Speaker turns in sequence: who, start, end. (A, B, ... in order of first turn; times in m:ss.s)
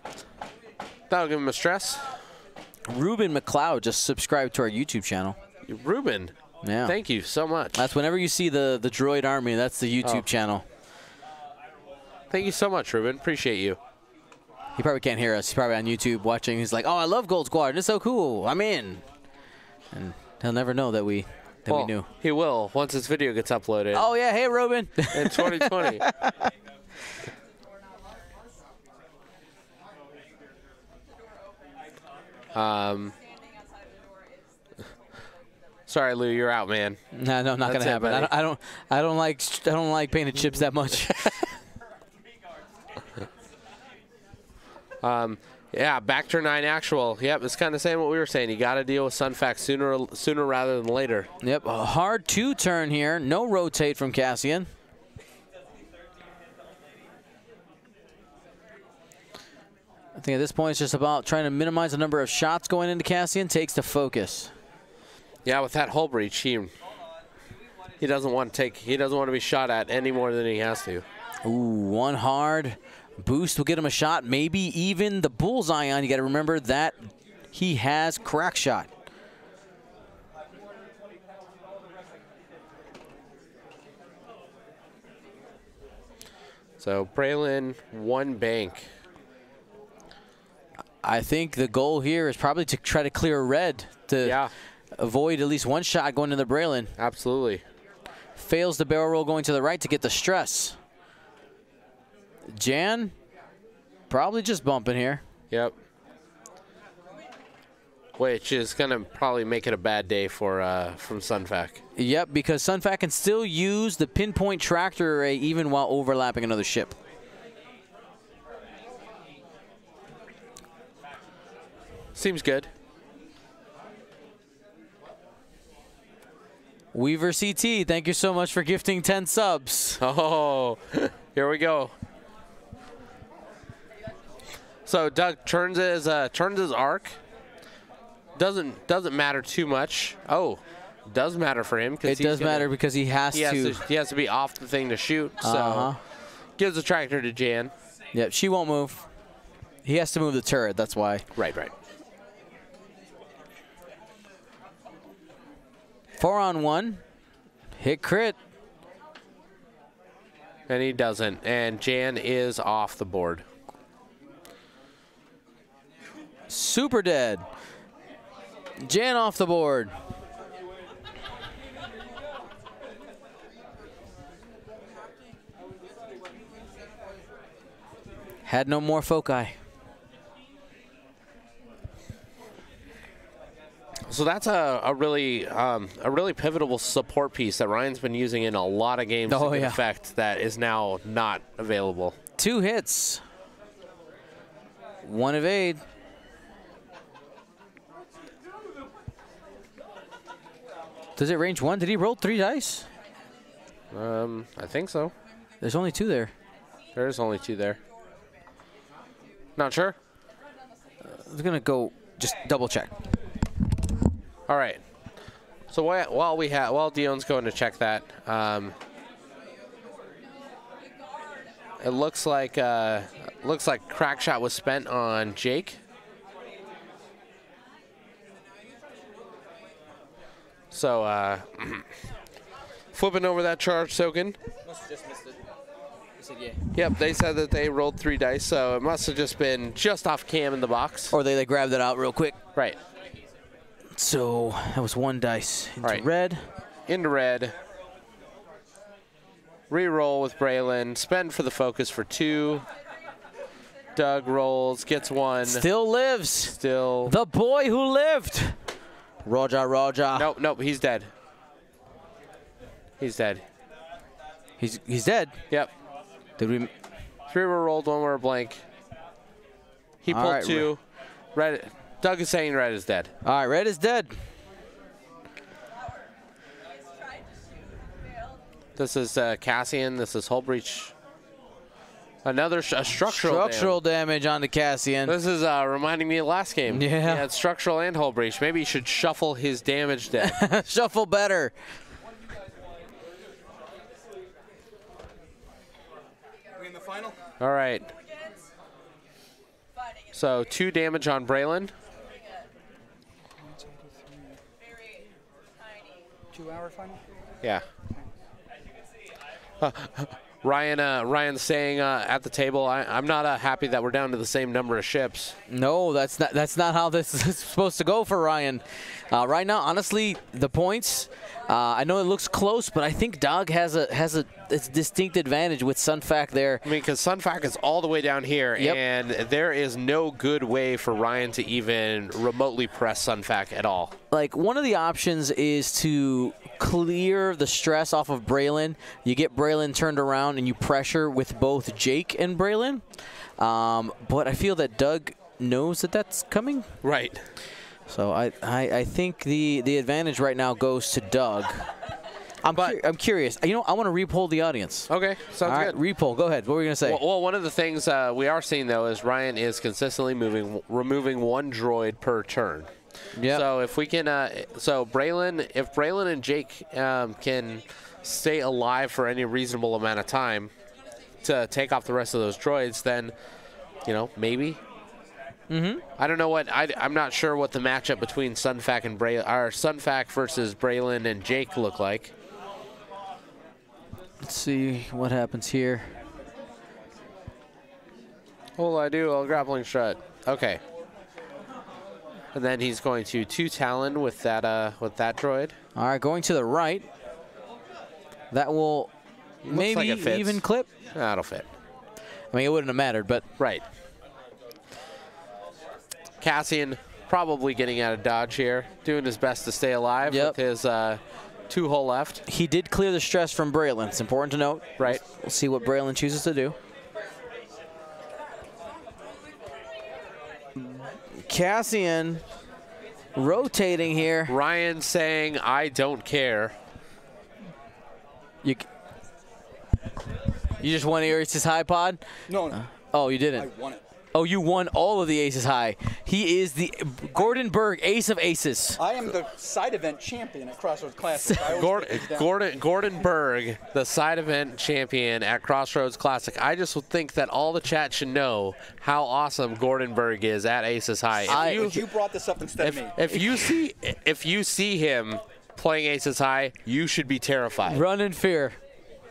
0:01.1-0:02.2 A
0:02.9-0:05.4 B
0:05.7-0:06.3 A
0:06.6-0:07.0 B
0:06.8-0:07.9 A
0:07.7-0:10.6 B
0:12.3-0:13.8 A
0:14.8-0:19.0 B
0:19.9-0:22.1 B
0:21.7-0:24.1 A
0:23.9-0:26.5 B
0:25.1-0:26.0 A
0:32.5-0:33.1 A
0:35.9-0:37.0 A
0:37.1-0:41.3 B
0:37.6-0:38.3 A
0:45.0-0:51.3 A
0:51.4-0:54.7 B
1:00.2-1:04.5 B
1:05.4-1:06.7 A
1:08.0-1:11.0 A
1:11.4-1:18.9 B
1:26.8-1:28.9 A
1:31.0-1:34.4 B
1:34.2-1:34.5 A
1:35.0-1:36.9 B
1:37.0-1:37.6 A
1:38.4-1:40.8 B
1:42.5-1:43.1 B
1:44.1-1:45.2 B
1:48.2-1:51.8 A
1:52.0-1:57.0 B
2:02.1-2:02.7 A
2:06.9-2:10.0 B
2:10.0-2:11.9 A
2:14.8-2:17.2 A
2:18.3-2:22.7 A
2:22.0-2:23.8 B
2:23.3-2:27.7 A
2:25.4-2:26.0 B
2:28.1-2:29.0 B
2:29.8-2:31.2 B
2:31.4-2:31.7 A
2:36.2-2:37.0 B
2:37.8-2:38.4 B
2:40.7-2:43.4 A
2:46.5-2:47.4 B
2:48.8-2:49.9 B
2:58.4-2:59.5 B
3:04.1-3:12.2 A
3:09.3-3:09.8 B
3:12.4-3:13.2 B
3:15.0-3:15.8 B
3:21.2-3:22.9 B
3:23.9-3:25.1 A
3:25.6-3:26.3 B
3:26.9-3:27.8 A
3:29.6-3:30.0 A
3:31.1-3:32.9 B
3:34.5-3:34.8 A
3:35.7-3:38.8 A
3:41.8-3:45.8 A
3:50.7-3:51.9 A
3:52.9-3:54.4 A
3:56.7-4:01.1 A
4:01.1-4:02.4 B
4:04.0-4:06.4 B
4:06.9-4:07.6 A
4:09.7-4:12.6 A
4:13.9-4:15.7 A
4:15.4-4:18.6 B
4:16.4-4:17.1 A
4:19.2-4:20.3 B
4:20.1-4:21.1 A
4:23.0-4:23.4 A
4:24.6-4:25.4 B
4:26.4-4:26.7 B
4:27.3-4:28.6 A
4:30.0-4:30.8 A
4:30.1-4:30.7 B
4:31.3-4:33.1 A
4:33.2-4:34.1 B
4:38.8-4:40.9 A
4:42.2-4:43.8 A
4:43.0-4:45.2 B
4:45.0-4:50.4 A
4:46.7-4:47.2 B
4:50.2-4:51.5 B
4:56.6-4:57.2 C
4:57.4-4:57.9 A
5:00.1-5:01.7 A
5:03.4-5:04.4 C
5:06.3-5:07.0 C
5:09.6-5:15.3 A
5:15.5-5:26.6 B
5:26.6-5:33.9 A
5:34.1-5:42.8 B
5:43.4-5:46.7 B
5:46.8-5:47.2 A
5:47.9-5:51.7 B
5:52.4-5:54.9 B
5:54.9-5:55.8 A
5:55.4-5:57.0 B
5:56.8-6:02.7 A
6:03.2-6:03.4 B
6:03.3-6:10.5 A
6:11.2-6:13.1 A
6:13.8-6:14.6 A
6:15.5-6:15.8 B
6:16.0-6:22.1 A
6:24.2-6:25.9 B
6:28.6-6:30.6 A
6:32.3-6:35.6 A
6:35.8-6:36.9 B
6:38.3-6:38.9 B
6:39.4-6:40.4 A
6:39.5-6:40.7 B
6:40.9-6:41.4 A
6:42.3-6:43.2 B
6:43.4-6:43.6 A
6:46.2-6:52.2 A
6:50.1-6:50.4 B
6:52.3-6:56.6 B
7:00.6-7:02.2 B
7:03.1-7:04.3 B
7:04.3-7:06.6 A
7:10.6-7:13.5 B
7:12.3-7:12.7 C
7:13.3-7:13.8 C
7:14.1-7:18.8 B
7:18.8-7:22.3 C
7:21.2-7:21.4 B
7:21.4-7:31.9 A
7:31.2-7:31.8 B
7:31.3-7:33.0 C
7:32.6-7:37.8 A
7:37.7-7:38.6 B